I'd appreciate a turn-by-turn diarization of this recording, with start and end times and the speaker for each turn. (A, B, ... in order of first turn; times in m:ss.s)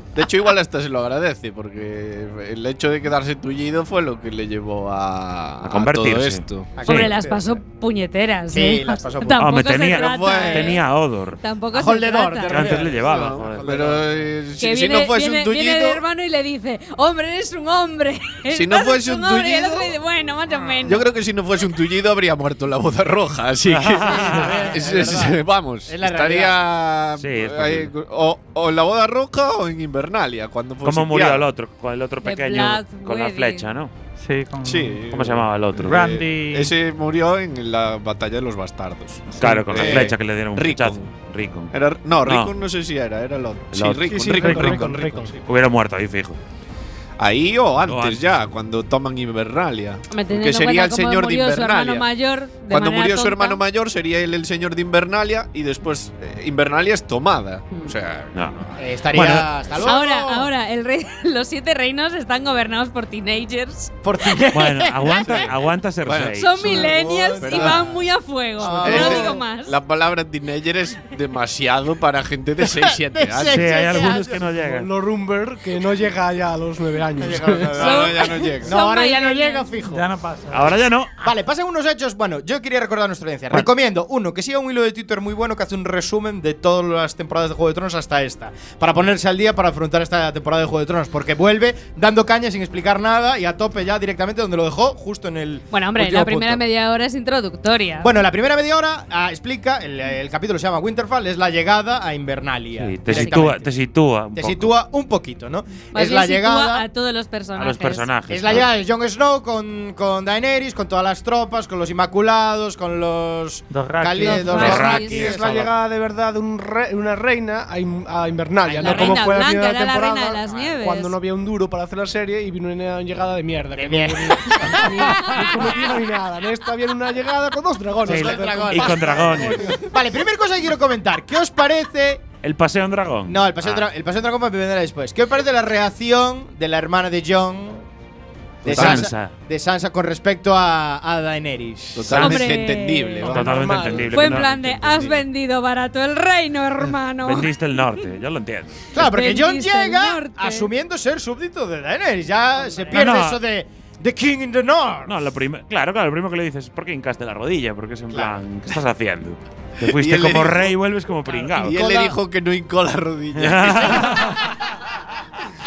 0:00.2-0:06.7 A
0:05.6-0:07.1 B
0:06.8-0:07.6 C
0:06.9-0:10.8 D
0:08.5-0:09.6 C
0:09.4-0:11.4 B
0:10.0-0:10.8 A
0:11.4-0:12.9 D
0:11.7-0:14.3 C
0:12.5-0:14.0 B
0:12.6-0:16.0 A
0:14.6-0:21.1 D
0:18.5-0:20.0 A
0:20.8-0:31.4 A
0:23.6-0:25.1 B
0:24.0-0:26.6 C
0:27.2-0:27.9 B
0:30.8-0:33.9 B
0:32.2-0:33.7 D
0:34.2-0:35.0 E
0:34.6-0:41.1 A
0:35.1-0:36.1 B
0:35.9-0:36.7 E
0:39.4-0:42.6 B
0:39.8-0:40.2 C
0:41.7-0:45.3 A
0:43.7-0:44.7 B
0:44.1-0:45.4 F
0:44.4-0:45.2 E
0:45.4-0:46.4 B
0:47.2-0:52.1 A
0:47.8-0:48.4 B
0:50.1-0:53.6 D
0:52.7-0:58.3 A
0:58.8-1:00.5 C
0:59.1-0:59.5 B
0:59.8-1:04.0 D
1:04.0-1:05.5 C
1:04.5-1:06.6 B
1:05.2-1:05.5 A
1:06.0-1:07.9 A
1:06.4-1:09.8 D
1:06.6-1:09.4 C
1:08.8-1:13.8 A
1:12.9-1:14.4 C
1:13.5-1:14.9 B
1:14.4-1:17.9 F
1:17.2-1:20.0 C
1:17.8-1:18.8 A
1:17.8-1:19.7 D
1:19.9-1:20.7 E
1:20.5-1:21.1 B
1:21.2-1:36.6 C
1:35.7-1:38.1 D
1:38.0-1:43.7 C
1:42.8-1:44.7 B
1:43.1-1:43.6 D
1:44.4-1:46.8 C
1:45.9-1:48.1 D
1:47.6-1:48.7 B
1:48.3-1:55.7 C
1:53.7-1:54.8 E
1:54.2-1:55.3 D
1:54.5-1:55.4 B
1:54.7-2:09.9 F
1:58.7-1:59.5 C
1:58.8-2:01.1 D
2:03.8-2:05.9 C
2:08.0-2:12.2 C
2:08.1-2:09.8 B
2:12.4-2:13.9 B
2:13.3-2:17.8 C
2:18.6-2:22.3 C
2:18.6-2:19.4 B
2:18.7-2:19.1 A
2:22.0-2:24.1 A
2:22.1-2:22.5 B
2:22.2-2:23.4 D
2:23.3-2:24.4 F
2:23.3-2:25.2 B
2:24.1-2:27.5 D
2:27.2-2:28.8 B
2:28.9-2:30.7 D
2:28.9-2:35.1 C
2:32.6-2:33.2 D
2:32.9-2:33.4 B
2:35.1-2:41.8 B
2:38.1-2:38.4 A
2:39.8-2:40.8 A
2:41.6-2:44.3 A
2:41.7-2:42.2 C
2:43.4-2:44.4 B